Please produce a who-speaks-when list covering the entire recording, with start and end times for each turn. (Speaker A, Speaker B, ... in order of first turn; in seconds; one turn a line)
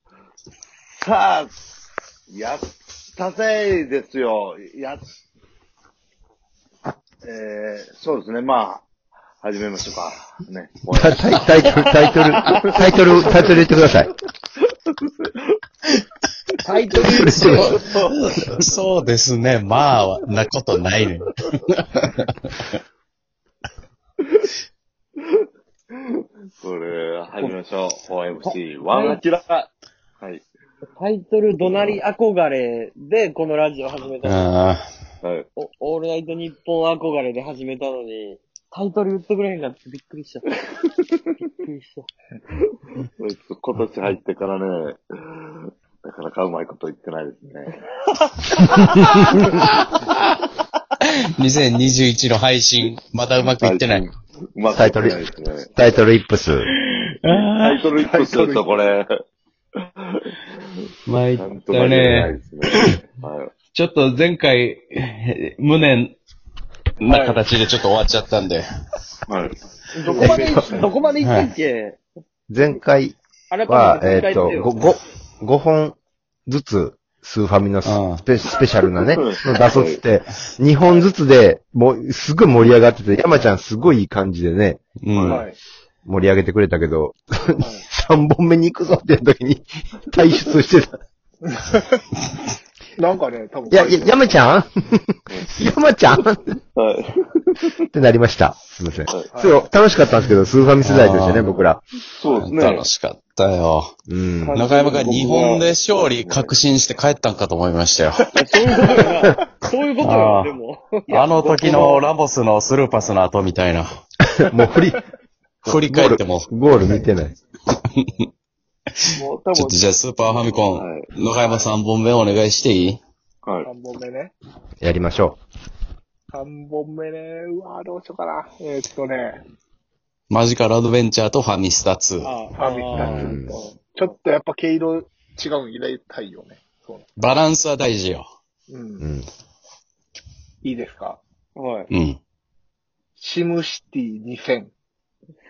Speaker A: 0.9-1.5
Speaker A: 2.3-5.0
Speaker A: 7.2-8.8
Speaker A: 9.4-11.8
Speaker B: 10.9-14.1
Speaker C: 11.8-12.5
Speaker A: 12.7-13.5
Speaker A: 14.9-15.3
Speaker C: 16.6-18.0
Speaker B: 16.9-17.8
Speaker D: 17.4-22.6
Speaker A: 17.5-18.1
Speaker A: 25.2-29.7
Speaker C: 28.4-29.2
Speaker C: 31.0-34.5
Speaker A: 31.5-32.0
Speaker D: 34.2-34.8
Speaker A: 35.2-35.5
Speaker C: 35.5-40.5
Speaker C: 41.6-42.1
Speaker A: 43.2-47.8
Speaker C: 48.4-49.6
Speaker D: 51.0-54.1
Speaker A: 53.6-55.7
Speaker B: 54.7-55.2
Speaker B: 55.7-56.7
Speaker D: 56.9-57.7
Speaker A: 57.3-59.1
Speaker E: 58.0-58.8
Speaker A: 59.8-60.3
Speaker D: 61.0-62.9
Speaker A: 61.4-63.5
Speaker D: 63.7-66.2
Speaker D: 67.0-68.7
Speaker E: 67.0-67.4
Speaker A: 69.3-69.5
Speaker C: 69.9-72.0
Speaker E: 70.0-70.9
Speaker B: 70.2-70.8
Speaker D: 71.2-71.5
Speaker B: 72.5-76.0
Speaker C: 73.5-74.8
Speaker B: 76.5-84.8
Speaker D: 77.8-78.2
Speaker A: 78.9-80.0
Speaker D: 85.0-85.4
Speaker A: 85.1-85.4
Speaker E: 85.3-85.6
Speaker B: 86.0-90.9
Speaker E: 91.5-91.8
Speaker E: 93.0-94.2
Speaker B: 93.7-96.5
Speaker A: 95.3-95.7
Speaker A: 96.8-97.8
Speaker B: 97.9-101.8
Speaker E: 99.3-99.7
Speaker D: 100.8-101.5
Speaker A: 102.1-102.8
Speaker D: 102.3-104.0
Speaker B: 104.1-104.6
Speaker C: 104.4-105.7
Speaker D: 104.5-108.3
Speaker A: 105.0-106.5
Speaker C: 108.4-112.1
Speaker E: 108.5-109.2
Speaker D: 110.0-110.5
Speaker D: 111.1-114.0
Speaker B: 114.4-115.0
Speaker D: 115.6-116.5
Speaker B: 115.7-117.3
Speaker D: 117.7-118.1
Speaker D: 119.0-123.0
Speaker A: 119.0-121.1
Speaker A: 123.4-123.7
Speaker E: 123.6-124.3
Speaker B: 124.8-125.4
Speaker E: 126.3-129.4
Speaker D: 130.3-132.3
Speaker C: 132.2-133.4
Speaker E: 132.6-137.1
Speaker B: 132.9-133.6
Speaker D: 137.2-138.3
Speaker E: 138.7-139.1
Speaker B: 139.0-139.3
Speaker E: 140.6-141.2
Speaker C: 141.6-141.9
Speaker D: 141.9-142.2
Speaker E: 143.2-144.7